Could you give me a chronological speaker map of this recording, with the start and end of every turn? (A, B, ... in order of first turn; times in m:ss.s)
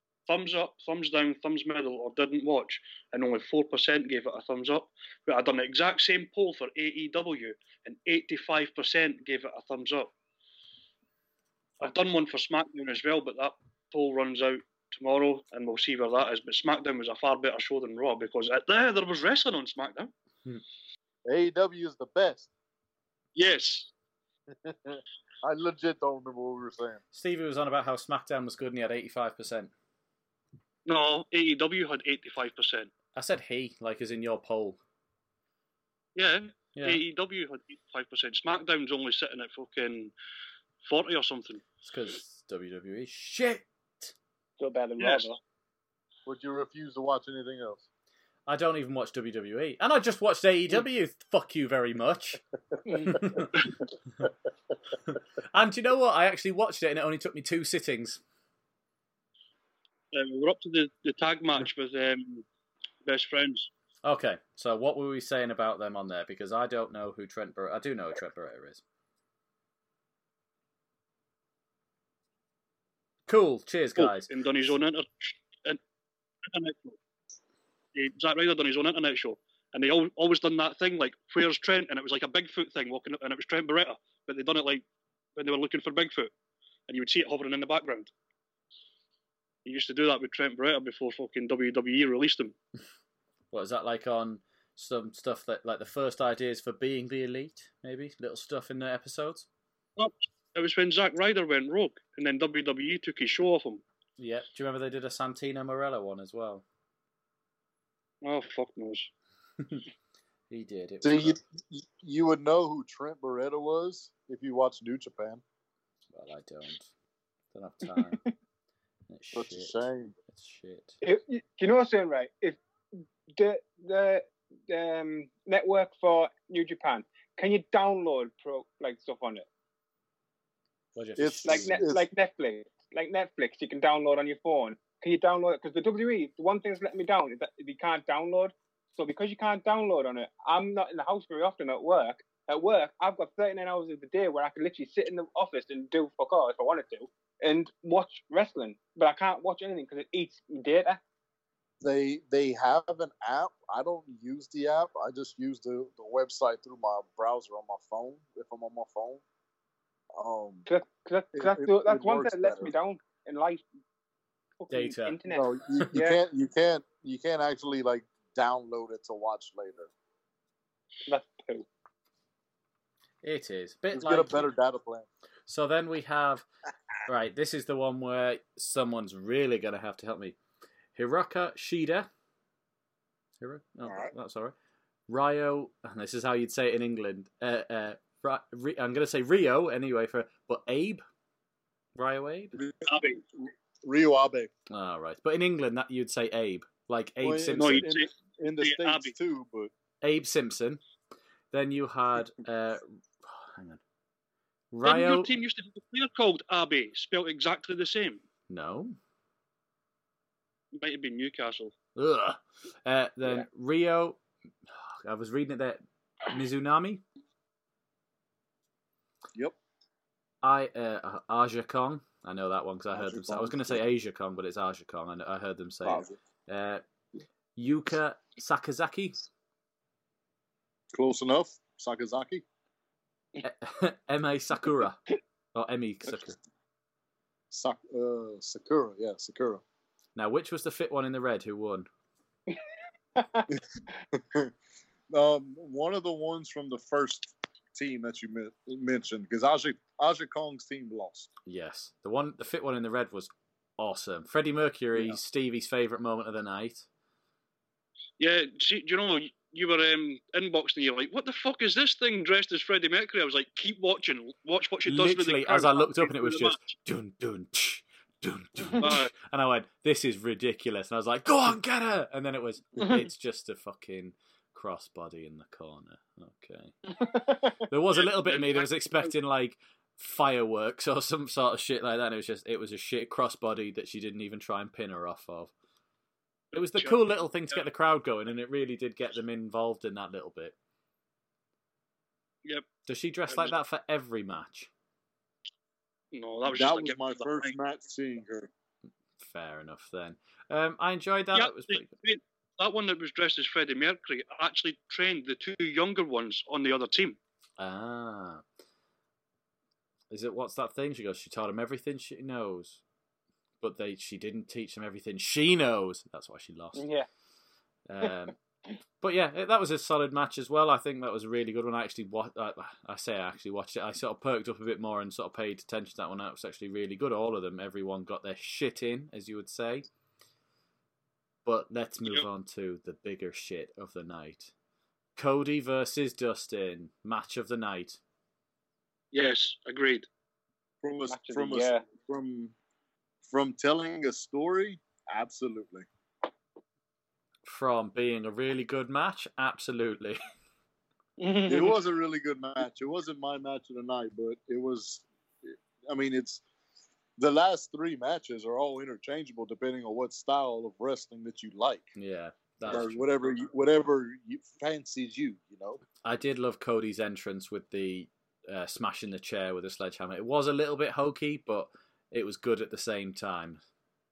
0:00.3-0:10.1 A
0:11.8-0:20.1 A
0:21.3-0:22.5 B
0:23.3-0:23.9 A
0:24.6-0:27.0 B
0:27.1-0:29.7 C
0:30.8-0:32.9 A
0:33.1-0:34.8 C
0:36.2-0:40.1 A
0:36.8-0:37.0 C
0:40.8-0:41.6 A
0:41.8-0:44.1 C
0:44.6-0:45.4 D
0:45.0-0:45.2 A
0:46.2-0:47.8 B
0:48.5-0:52.4 C
0:52.8-0:53.2 D
0:53.0-0:53.7 C
0:55.0-0:58.2 C
1:00.1-1:02.4 A
1:03.0-1:03.7 A
1:04.0-1:08.8 C
1:13.3-1:14.3 C
1:14.0-1:15.8 A
1:16.5-1:17.0 A
1:17.9-1:24.8 A
1:25.4-1:26.3 A
1:26.9-1:28.1 A
1:29.6-1:32.5 A
1:33.5-1:39.5 C
1:40.0-1:43.8 A
1:44.2-1:46.6 C
1:48.2-1:49.1 A
1:50.5-1:51.4 C
1:51.0-1:55.4 B
1:56.1-1:56.9 C
1:57.5-1:58.3 C
1:59.1-1:59.8 C
1:59.3-2:00.2 B
2:00.3-2:01.0 C
2:01.0-2:02.6 D
2:03.3-2:09.5 D
2:10.9-2:11.8 C
2:11.2-2:12.0 B
2:11.4-2:31.0 D
2:31.8-2:39.2 B
2:40.2-2:40.6 B
2:40.7-2:43.6 D
2:41.3-2:42.7 B
2:44.6-2:46.2 D
2:44.7-2:45.2 C
2:45.3-2:49.9 B
2:51.1-2:51.7 D
2:53.2-2:54.5 C
2:53.9-2:55.1 B
2:55.5-2:56.4 C
2:57.0-3:00.4 C
3:01.0-3:02.1 C
3:03.4-3:04.5 C
3:03.8-3:04.1 B
3:05.1-3:11.0 C
3:12.0-3:12.6 C
3:12.6-3:14.5 B
3:12.8-3:13.2 A
3:14.7-3:17.9 C
3:17.2-3:19.7 B
3:17.5-3:19.1 A
3:20.0-3:20.8 C
3:21.5-3:23.8 C
3:24.7-3:25.3 C
3:24.8-3:28.2 A
3:28.5-3:29.0 C
3:30.7-3:31.7 A
3:32.0-3:37.0 C
3:40.4-3:46.8 C
3:42.9-3:43.8 B
3:45.8-3:46.2 B
3:47.6-3:49.2 C
3:50.9-3:52.4 B
3:53.4-3:55.0 C
3:55.5-3:56.4 C
3:57.5-3:59.6 B
4:00.1-4:01.9 C
4:03.2-4:03.5 D
4:04.1-4:04.5 B
4:05.1-4:11.3 B
4:11.4-4:16.8 C
4:14.9-4:15.2 B
4:18.2-4:26.6 A
4:24.9-4:36.7 C
4:28.8-4:29.1 A
4:36.9-4:37.6 D
4:37.7-4:45.5 C
4:38.0-4:39.1 A
4:46.5-4:47.7 A
4:46.5-4:50.5 C
4:52.8-4:54.7 C
4:53.3-4:53.5 A
4:56.1-4:57.5 A
4:56.4-4:58.5 B
4:59.2-5:01.9 C
5:01.3-5:07.2 A
5:07.6-5:08.4 C
5:10.1-5:12.8 C
5:13.6-5:16.8 C
5:16.7-5:17.1 D
5:17.9-5:18.3 C
5:19.0-5:29.8 C
5:31.4-5:34.5 C
5:35.2-5:38.0 C
5:39.1-5:40.1 A
5:40.8-5:42.5 B
5:41.1-5:41.8 D
5:43.2-5:45.9 B
5:47.4-5:50.2 C
5:51.2-5:51.8 D
5:51.4-5:56.4 B
5:57.2-6:01.9 B
6:02.0-6:03.0 C
6:02.7-6:05.8 B
6:06.0-6:13.6 C